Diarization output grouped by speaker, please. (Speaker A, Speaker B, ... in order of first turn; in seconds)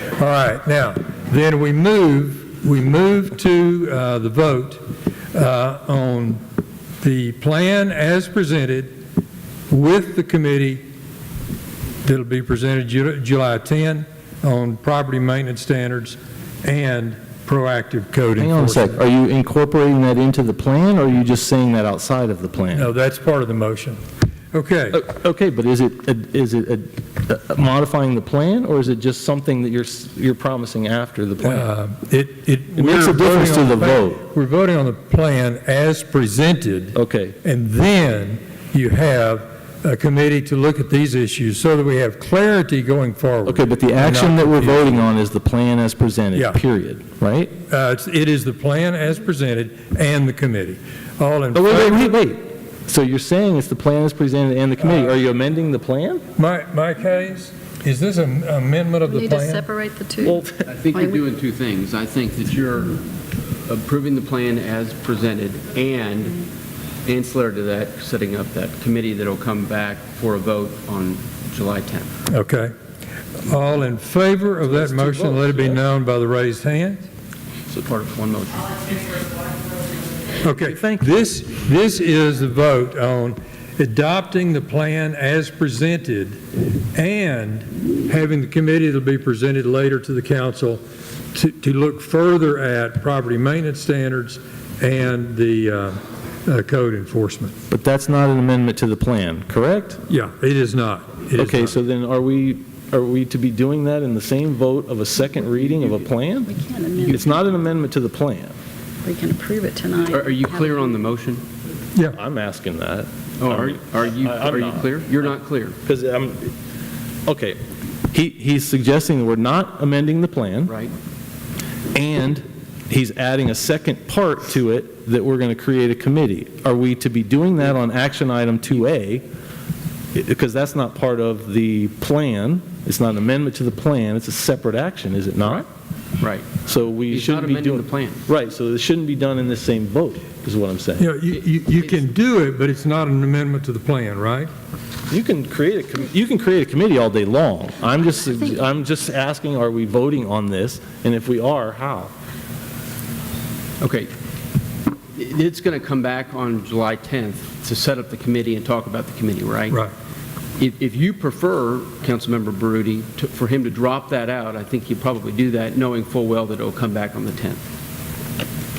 Speaker A: 0.1-4.8, 5.3-6.4, 7.0-8.9, 9.7-10.8, 12.0-19.0, 22.7-24.0, 24.5-25.0, 31.4-45.1, 46.3-46.6, 47.7-52.1, 56.4-59.6, 72.3-72.7, 73.4-77.0, 80.4-86.4, 86.9-90.8, 91.3-97.5, 100.1-101.7, 141.0-144.5
Speaker B: 18.4-22.9, 24.9-31.7, 32.8-34.2, 36.9-37.4, 43.5-47.5, 51.5-56.2, 60.2-60.6, 74.6-75.8, 80.6-81.1, 97.7-100.0, 101.4-106.5, 107.0-108.5, 112.1-115.1, 115.8-116.5, 117.2-117.6, 118.1-120.7, 121.9-129.2, 130.1-135.7, 136.6-141.1, 145.1-152.1
Speaker C: 59.0-61.2, 106.4-107.5, 109.0-111.0
Speaker D: 60.6-63.0, 63.6-66.4, 67.0-72.1, 77.7-79.2, 110.1-111.4, 113.4-115.8, 120.7-120.9, 136.2-138.2, 153.8-154.1, 155.1-159.8, 160.6-167.6